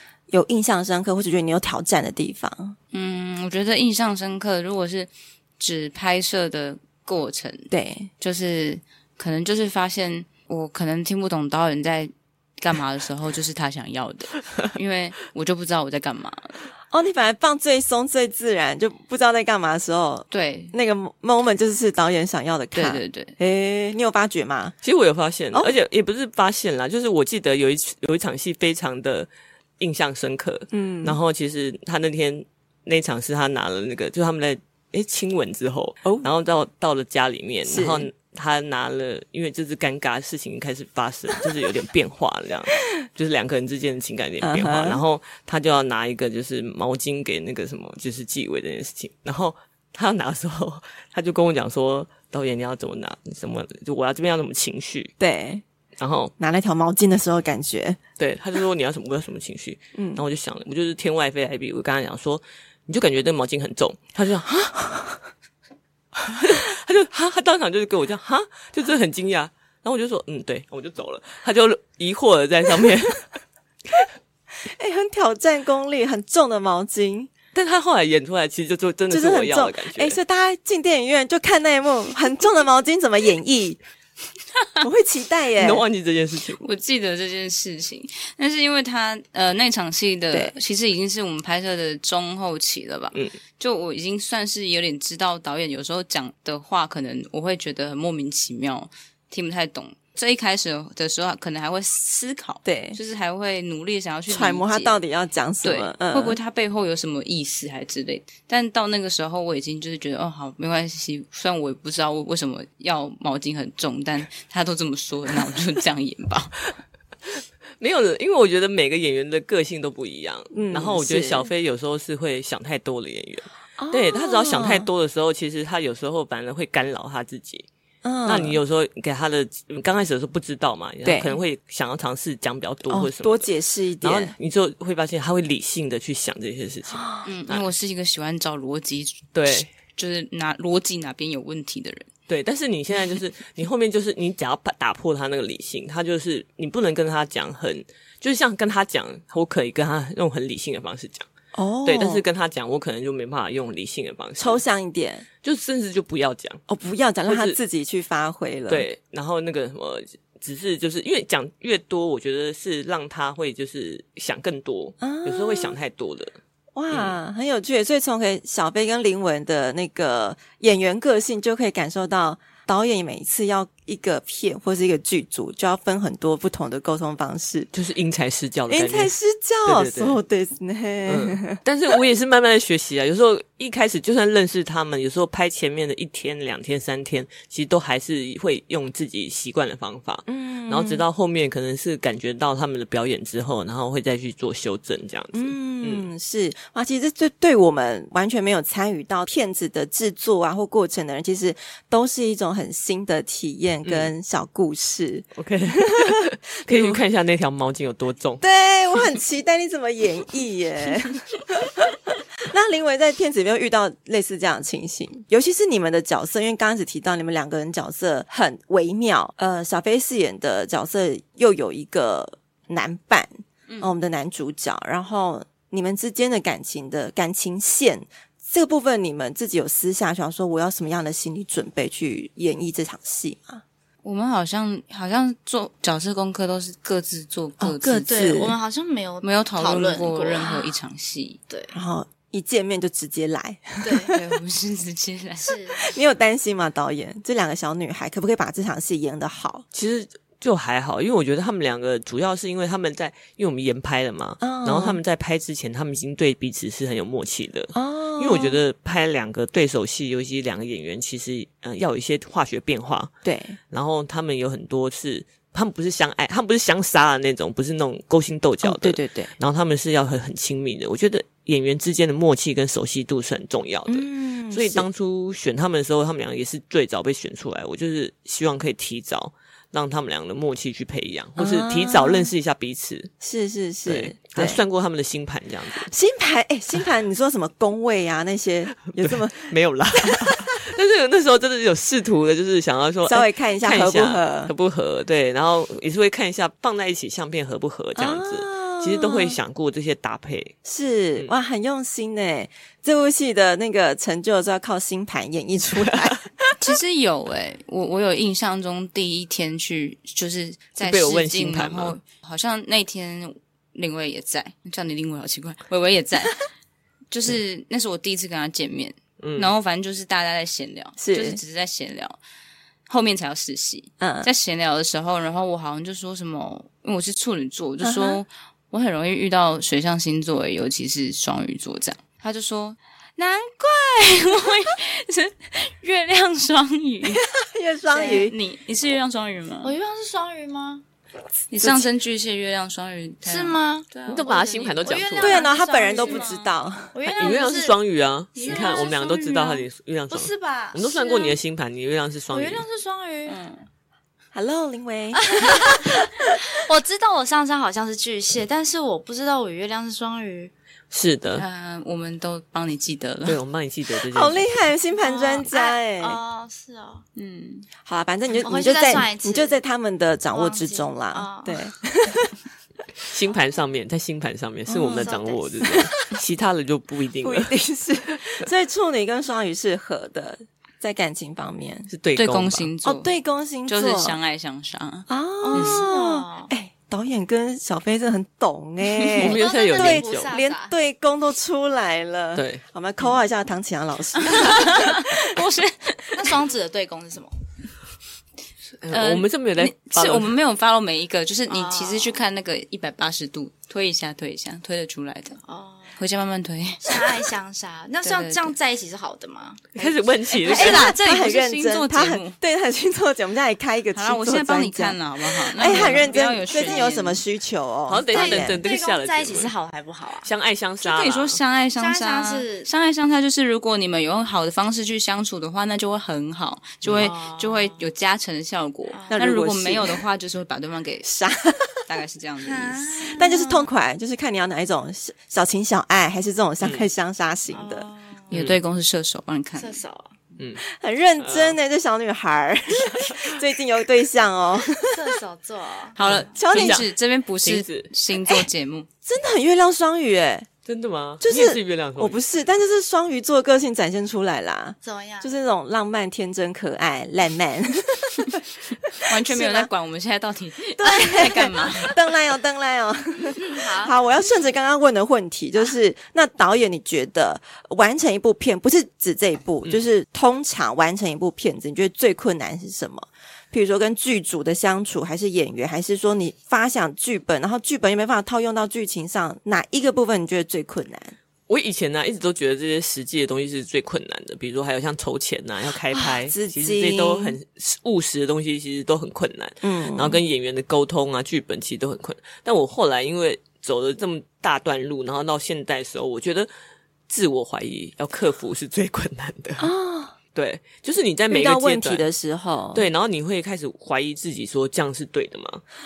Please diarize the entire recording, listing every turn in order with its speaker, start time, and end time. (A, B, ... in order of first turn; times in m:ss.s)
0:00.3-0:02.8 A
0:02.9-0:16.6 B
0:07.7-0:08.1 A
0:16.9-0:24.8 A
0:20.3-0:20.8 B
0:22.7-0:23.4 B
0:24.8-0:29.3 C
0:29.8-0:55.1 C
0:30.7-0:31.2 A
0:37.7-0:38.1 A
0:44.4-0:45.0 A
0:55.2-0:55.6 A
0:56.0-0:56.3 C
0:56.4-0:58.0 A
0:58.2-1:04.6 C
1:00.0-1:00.2 A
1:04.7-1:05.1 A
1:06.3-1:13.3 C
1:14.6-1:17.3 A
1:17.6-1:20.2 C
1:19.1-1:23.8 A
1:24.8-1:25.8 A
1:25.6-1:26.6 C
1:26.6-1:45.0 B
1:42.6-1:43.0 A
1:44.3-1:46.4 A
1:45.6-1:56.6 B
1:57.8-2:07.7 C
2:00.5-2:01.5 A
2:03.8-2:04.9 A
2:08.0-2:08.6 A
2:08.2-2:13.5 C
2:11.0-2:11.4 A
2:12.9-2:14.3 A
2:14.0-2:17.7 C
2:16.9-2:17.3 A
2:17.2-2:22.1 B
2:19.3-2:19.7 C
2:22.3-2:31.3 C
2:31.6-2:32.2 A
2:31.8-2:34.6 C
2:34.4-2:35.3 A
2:35.4-2:36.6 C
2:36.7-2:38.9 A
2:37.3-2:37.6 C
2:38.7-2:46.4 C
2:45.0-2:45.8 A
2:46.8-2:57.7 A
2:46.9-2:47.2 C
2:57.7-2:59.1 C
2:58.7-3:01.6 A
2:59.6-3:00.2 C
3:01.1-3:16.1 C
3:10.3-3:11.0 A
3:15.3-3:27.0 A
3:23.8-3:24.1 C
3:25.4-3:28.4 C
3:28.4-3:53.6 A
3:54.0-3:58.3 B
3:57.6-3:58.6 A
3:58.1-4:00.7 D
3:59.2-4:01.4 B
4:01.5-4:01.7 D
4:01.7-4:04.2 A
4:03.8-4:04.1 D
4:04.1-4:05.6 B
4:05.4-4:05.9 D
4:05.8-4:09.6 A
4:09.7-4:23.1 C
4:14.4-4:15.0 A
4:17.8-4:18.6 A
4:23.2-4:23.6 A
4:23.7-4:43.1 C
4:28.6-4:29.3 A
4:33.9-4:34.9 A
4:41.4-4:42.3 A
4:43.2-4:44.6 A
4:43.9-4:45.9 C
4:45.7-4:49.6 A
4:48.9-5:00.6 C
4:50.1-4:50.4 A
4:53.0-4:54.5 A
4:58.0-4:59.4 A
5:00.6-5:06.3 A
5:05.8-5:06.2 C
5:06.6-5:16.4 B
5:10.8-5:12.0 C
5:17.1-5:22.2 B
5:19.2-5:19.5 C
5:21.0-5:21.4 A
5:22.9-5:37.3 B
5:24.0-5:24.3 A
5:27.8-5:28.2 A
5:37.2-5:38.4 A
5:37.9-5:38.3 D
5:38.0-5:39.8 B
5:39.6-5:40.8 D
5:41.5-5:46.5 B
5:43.2-5:46.4 D
5:44.1-5:45.5 C
5:45.2-5:47.0 A
5:46.9-5:47.8 D
5:47.1-5:52.6 C
5:48.4-5:51.4 D
5:48.4-5:49.0 B
5:52.3-5:53.4 D
5:53.3-5:53.7 B
5:54.3-5:56.3 A
5:55.3-6:00.5 D
6:00.9-6:01.4 C
6:01.4-6:03.4 B
6:03.2-6:04.4 C
6:04.1-6:06.2 A
6:05.0-6:07.0 D
6:07.2-6:07.7 B
6:07.8-6:12.4 A
6:08.4-6:09.6 D
6:10.3-6:11.7 D
6:13.1-6:17.5 C
6:14.7-6:16.1 A
6:14.9-6:15.9 D
6:17.2-6:21.9 A
6:21.9-6:22.7 C
6:22.2-6:23.1 B
6:22.8-6:24.2 A
6:23.7-6:25.8 B
6:25.1-6:35.0 A
6:25.4-6:26.5 D
6:29.2-6:30.4 C
6:29.2-6:30.8 D
6:32.4-6:32.6 C
6:34.3-6:36.4 B
6:36.2-6:37.3 D
6:38.8-6:40.3 C
6:38.9-6:45.4 B
6:41.5-6:42.2 D
6:45.4-6:46.0 D
6:46.0-6:47.3 B
6:46.8-6:50.0 D
6:48.0-6:48.5 B
6:49.8-6:50.9 C
6:50.3-6:52.4 B
6:50.5-6:58.6 A
6:53.9-6:57.2 B
6:55.6-6:56.8 D
6:57.9-6:59.5 C
6:58.1-7:00.3 D
7:00.2-7:01.4 C
7:00.8-7:11.1 B
7:01.8-7:02.7 D
7:06.8-7:07.1 C
7:07.0-7:07.9 D
7:08.9-7:09.2 D
7:09.1-7:10.0 A
7:11.0-7:11.9 A
7:11.9-7:12.9 B
7:12.4-7:13.7 D
7:13.1-7:17.9 A
7:16.6-7:16.9 C
7:17.5-7:18.3 D
7:18.3-7:19.8 B
7:18.3-7:18.6 C
7:19.6-7:20.1 D
7:20.4-7:20.6 C
7:20.6-7:25.1 A
7:21.2-7:21.6 C
7:24.9-7:26.3 D
7:26.0-7:28.9 B
7:26.0-7:26.9 C
7:26.3-7:26.8 A
7:27.4-7:27.9 C
7:29.0-7:30.5 A
7:30.7-7:32.2 C
7:31.2-7:39.7 A
7:34.8-7:35.3 D
7:39.0-7:42.0 B
7:40.8-8:01.2 A
7:43.4-7:43.9 D
8:01.5-8:16.5 C
8:05.9-8:07.4 A
8:09.6-8:10.2 A
8:17.1-8:19.7 C
8:19.6-8:20.2 A
8:20.4-8:22.1 C
8:21.3-8:22.9 A
8:22.7-8:25.6 C